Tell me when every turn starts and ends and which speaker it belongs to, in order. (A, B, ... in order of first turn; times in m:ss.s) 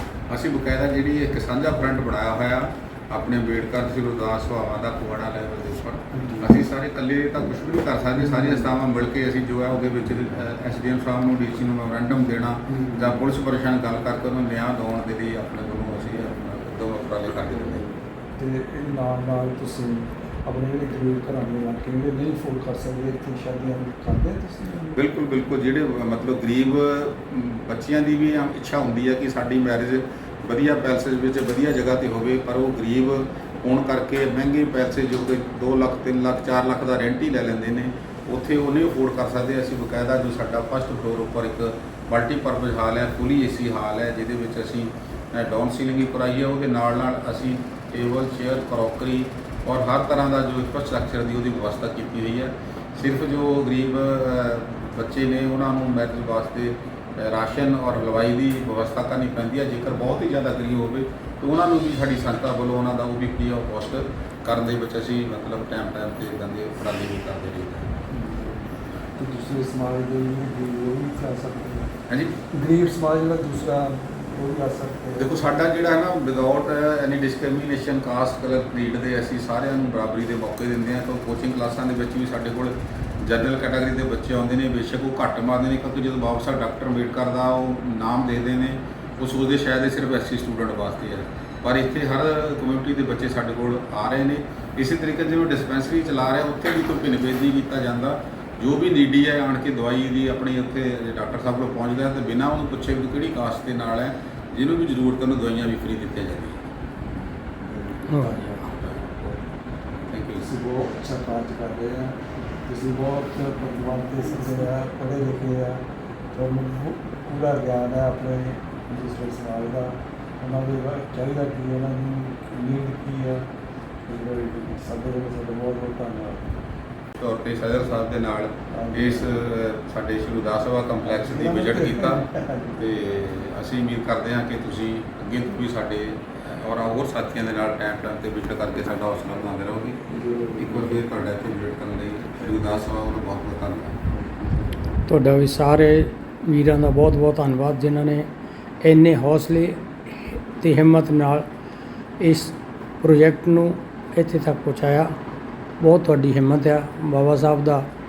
0:00.3-0:17.9 A
0:06.1-0:06.6 B
0:08.2-0:08.6 B
0:18.3-0:25.0 B
0:24.9-1:07.9 A
1:08.1-1:11.9 B
1:12.1-1:12.4 A
1:12.5-1:15.4 B
1:15.2-1:46.6 A
1:47.6-1:48.6 B
1:48.1-1:48.5 C
1:50.1-1:50.5 A
1:50.4-2:03.5 B
2:04.0-2:06.6 B
2:07.2-2:24.1 A
2:08.7-2:09.4 B
2:11.0-2:12.8 B
2:25.0-2:28.3 C
2:28.8-2:31.4 C
2:32.2-2:35.1 C
2:35.8-2:37.9 C